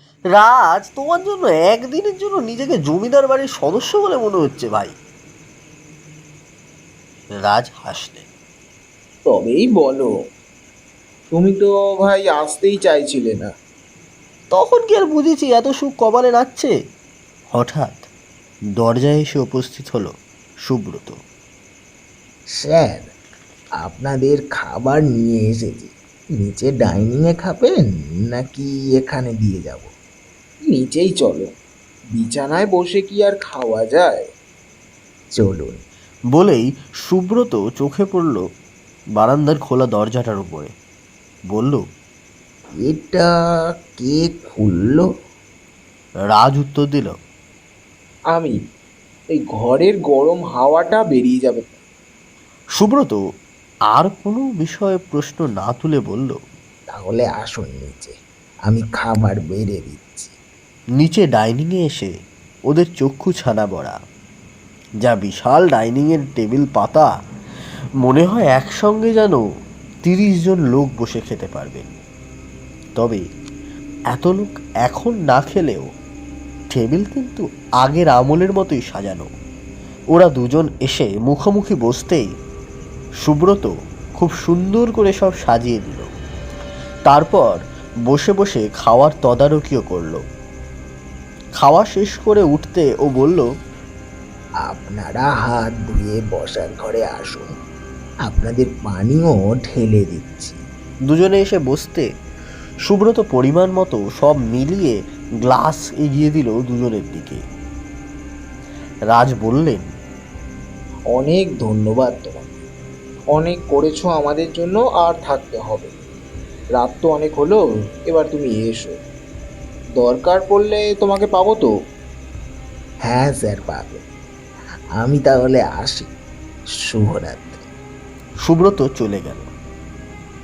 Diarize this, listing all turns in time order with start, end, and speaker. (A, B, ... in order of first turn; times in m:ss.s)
0:00.3-0:05.0 A
0:07.4-0:08.3 A
0:09.2-0:10.1 B
0:11.3-0:13.5 B
0:14.5-0:16.7 A
0:17.5-0:18.1 A
0:18.8-0:20.1 A
0:20.6-0:21.2 A
0:22.5-0:23.1 C
0:23.8-0:29.9 C
0:30.7-0:31.5 B
0:32.1-0:34.2 B
0:35.3-0:35.8 C
0:36.3-0:38.4 A
0:39.2-0:40.7 A
0:41.5-0:41.8 A
0:42.8-0:43.3 C
0:44.0-0:45.1 C
0:46.4-0:47.1 A
0:48.3-0:48.6 B
0:49.3-0:51.8 B
0:52.8-0:53.2 A
0:53.9-0:56.4 A
0:56.9-0:58.1 C
0:58.7-1:00.3 C
1:01.0-1:02.1 A
1:02.7-1:04.0 A
1:05.0-1:07.1 A
1:08.0-1:09.4 A
1:10.0-1:11.9 A
1:13.0-1:13.2 A
1:14.1-1:15.9 A
1:16.7-1:19.3 A
1:20.1-1:22.3 A
1:23.2-1:26.1 A
1:27.1-1:30.2 A
1:31.6-1:33.5 A
1:34.6-1:37.5 C
1:38.2-1:40.6 C
1:41.1-1:42.1 A
1:42.8-1:47.4 A
1:49.1-1:49.9 A
1:51.1-1:52.5 B
1:53.3-1:55.9 B
1:56.8-1:59.0 B
2:00.0-2:01.7 B
2:03.0-2:04.0 C
2:05.0-2:06.1 C
2:06.9-2:07.7 C
2:08.4-2:09.5 A